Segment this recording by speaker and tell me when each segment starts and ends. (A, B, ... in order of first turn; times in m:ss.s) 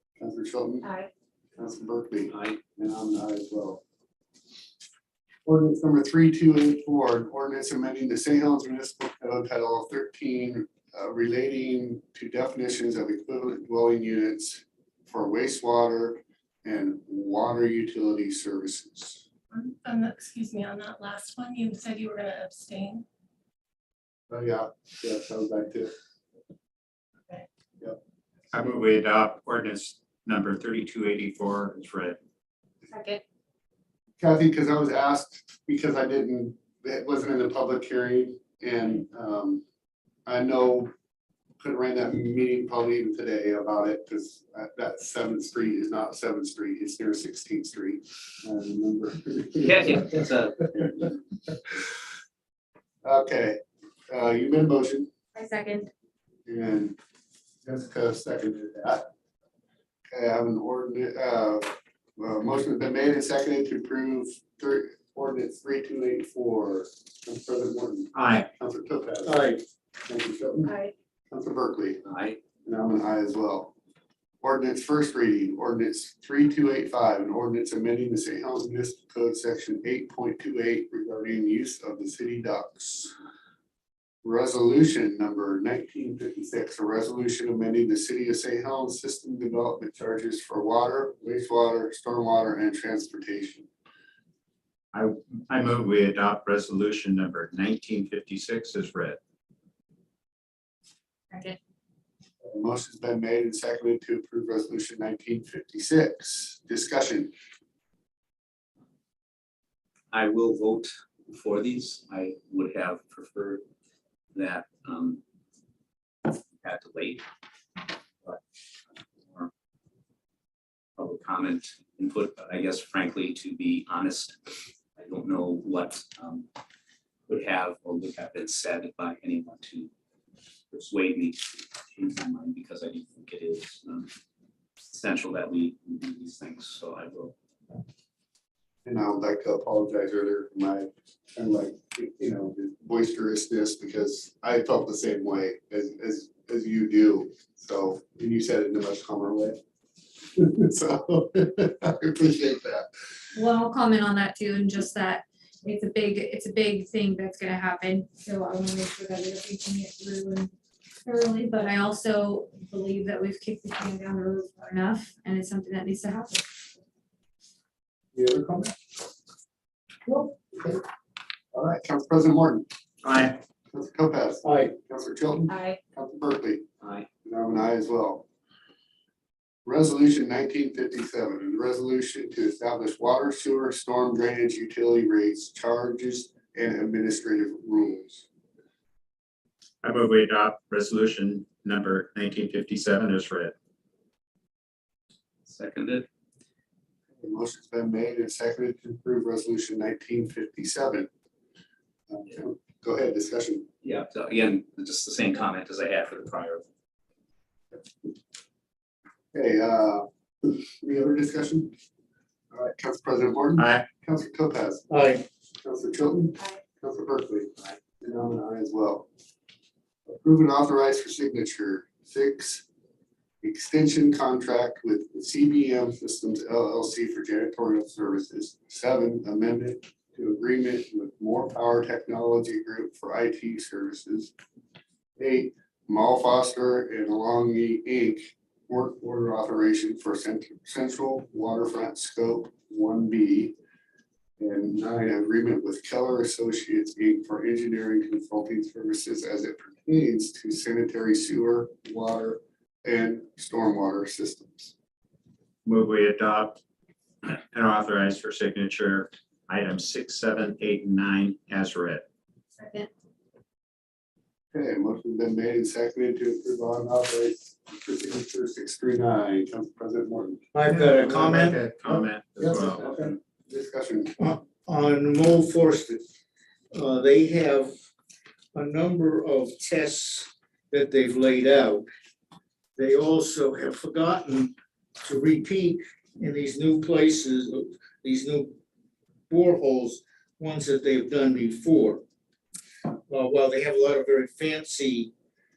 0:00.2-0:00.9 A
0:00.8-0:01.1 B
0:01.6-0:03.8 A
0:05.4-0:19.2 A
0:19.5-0:23.0 B
0:24.3-0:25.9 A
0:28.5-0:32.2 C
0:32.9-0:33.2 D
0:34.2-0:39.6 A
0:40.2-0:40.9 A
0:41.6-0:51.1 A
0:49.6-0:50.7 E
0:53.0-0:53.6 A
0:54.1-0:55.1 A
0:55.3-0:55.9 D
0:56.4-0:57.0 A
0:57.6-0:59.1 A
1:00.1-1:09.4 A
1:08.1-1:08.5 C
1:09.2-1:09.6 F
1:10.1-1:10.7 A
1:10.6-1:10.9 D
1:11.3-1:12.0 A
1:12.0-1:12.4 E
1:12.6-1:13.7 A
1:14.4-1:23.1 A
1:24.2-1:33.7 A
1:34.9-1:39.2 C
1:41.3-1:41.6 D
1:42.4-1:47.3 A
1:50.1-1:53.6 E
1:54.3-1:55.2 E
1:56.3-1:57.2 E
2:01.0-2:04.4 E
2:05.0-2:06.5 E
2:07.3-2:09.9 E
2:10.7-2:14.1 E
2:14.8-2:17.3 E
2:18.8-2:29.6 A
2:30.4-2:32.8 A
2:33.3-2:40.5 D
2:41.0-2:46.7 D
2:48.1-2:48.7 A
2:50.1-2:50.3 F
2:51.5-2:52.6 A
2:53.0-2:53.4 C
2:53.7-2:56.6 A
2:54.4-2:54.7 F
2:55.5-2:55.8 D
2:56.8-2:57.1 E
2:57.2-2:58.2 A
2:59.6-3:08.3 A
3:09.8-3:13.5 C
3:15.4-3:16.0 E
3:17.2-3:21.1 A
3:22.1-3:23.7 A
3:23.8-3:26.7 E
3:29.3-3:31.7 A
3:32.5-3:34.8 A
3:33.6-3:33.8 C
3:34.9-3:35.2 F
3:35.6-3:39.1 A
3:40.1-3:42.6 A
3:43.4-3:54.3 A
3:55.2-4:03.5 A
4:04.4-4:14.7 A
4:15.6-4:16.6 C
4:17.2-4:22.0 C
4:22.5-4:22.9 D
4:24.5-4:30.4 A
4:30.5-4:31.6 F
4:30.6-4:32.8 C
4:32.4-4:34.1 A
4:34.2-4:36.0 F
4:36.7-4:37.7 F
4:38.5-4:41.8 F
4:42.8-4:48.6 F
4:49.3-4:52.0 F
4:53.1-4:55.1 F